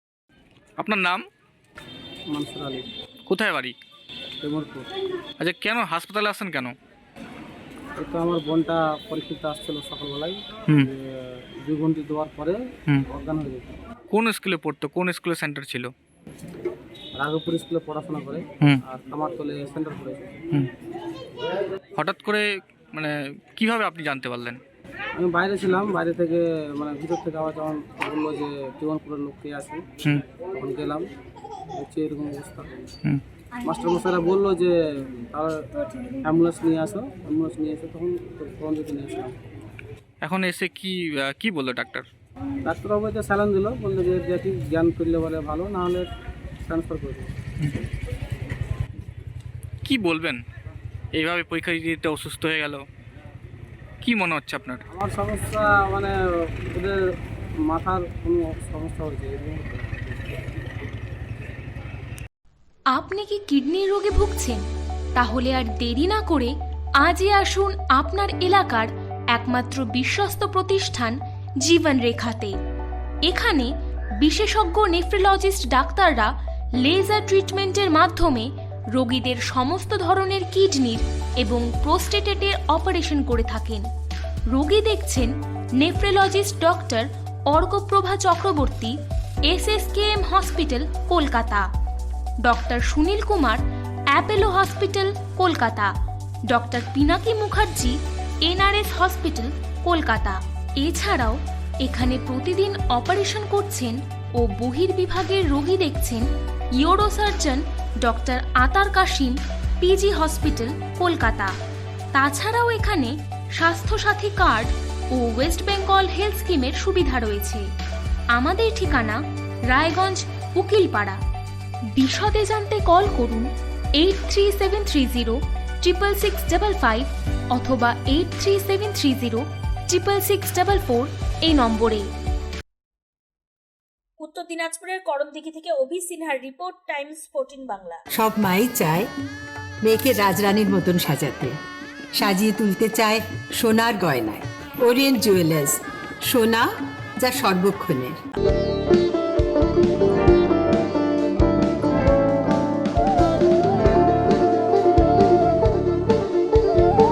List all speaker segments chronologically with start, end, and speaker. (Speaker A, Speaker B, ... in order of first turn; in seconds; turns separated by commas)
Speaker A: 0.8-1.2, Speaker B: 2.3-2.9, Speaker A: 3.3-3.8, Speaker B: 4.4-4.9, Speaker A: 5.4-6.7, Speaker B: 8.0-13.7, Speaker A: 14.1-15.9, Speaker B: 17.2-20.4, Speaker A: 22.0-24.6, Speaker B: 25.2-29.9, Speaker B: 30.6-31.1, Speaker B: 31.7-32.7, Speaker B: 33.6-35.5, Speaker B: 36.2-39.4, Speaker A: 40.2-42.1, Speaker B: 42.6-46.1, Speaker B: 46.6-47.3, Speaker A: 49.8-50.4, Speaker A: 51.1-52.9, Speaker A: 54.0-54.8, Speaker B: 54.9-57.0, Speaker B: 57.7-60.0, Speaker C: 62.9-64.6, Speaker C: 65.2-72.6, Speaker C: 73.3-83.9, Speaker C: 84.5-89.0, Speaker C: 89.5-91.7, Speaker C: 92.4-95.9, Speaker C: 96.5-106.3, Speaker C: 106.8-111.5, Speaker C: 112.2-117.7, Speaker C: 118.3-121.2, Speaker C: 122.0-132.1, Speaker D: 134.2-138.0, Speaker E: 138.1-139.1, Speaker E: 139.8-141.6, Speaker E: 142.1-148.2